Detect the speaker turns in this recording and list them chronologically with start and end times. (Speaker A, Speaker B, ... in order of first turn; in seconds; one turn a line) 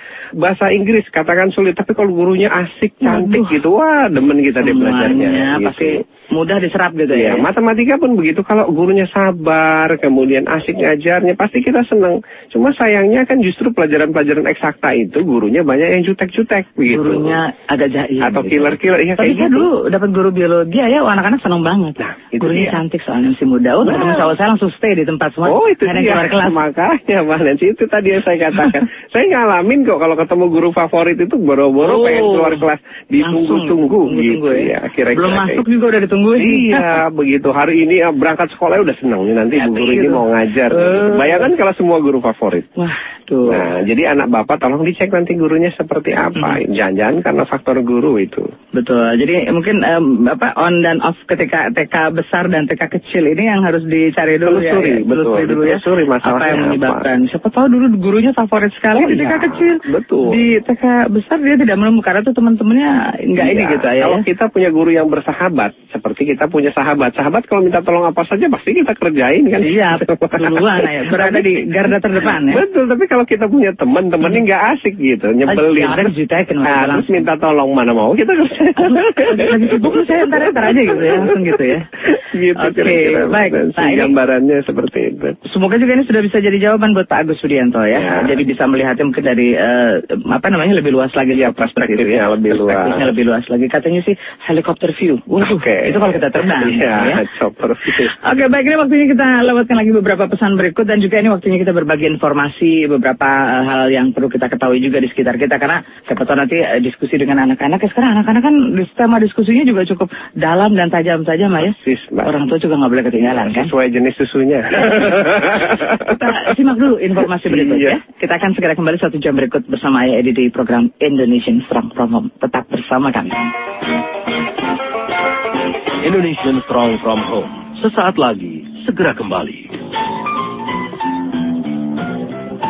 Speaker A: 0.4-6.0
Speaker B: 3.0-3.6
Speaker B: 4.6-7.5
Speaker A: 7.1-17.4
Speaker B: 16.9-26.6
Speaker A: 18.2-19.7
Speaker A: 22.0-22.8
Speaker A: 23.8-24.3
Speaker A: 25.5-35.6
Speaker B: 31.8-32.6
Speaker B: 33.2-37.0
Speaker A: 36.4-42.7
Speaker B: 39.6-41.5
Speaker B: 42.8-43.7
Speaker A: 43.5-48.5
Speaker B: 48.8-64.2
Speaker A: 54.5-57.1
Speaker A: 59.0-60.4
Speaker A: 63.4-71.6
Speaker B: 69.6-72.6
Speaker A: 72.2-76.1
Speaker B: 75.5-77.2
Speaker A: 76.6-81.4
Speaker B: 78.8-81.9
Speaker A: 82.1-85.4
Speaker B: 82.6-84.1
Speaker B: 85.5-97.2
Speaker A: 88.0-88.4
Speaker A: 91.3-93.1
Speaker A: 95.4-98.1
Speaker B: 97.9-113.7
Speaker A: 111.6-112.3
Speaker A: 113.2-116.3
Speaker B: 116.0-123.5
Speaker A: 117.5-118.0
Speaker C: 126.0-129.7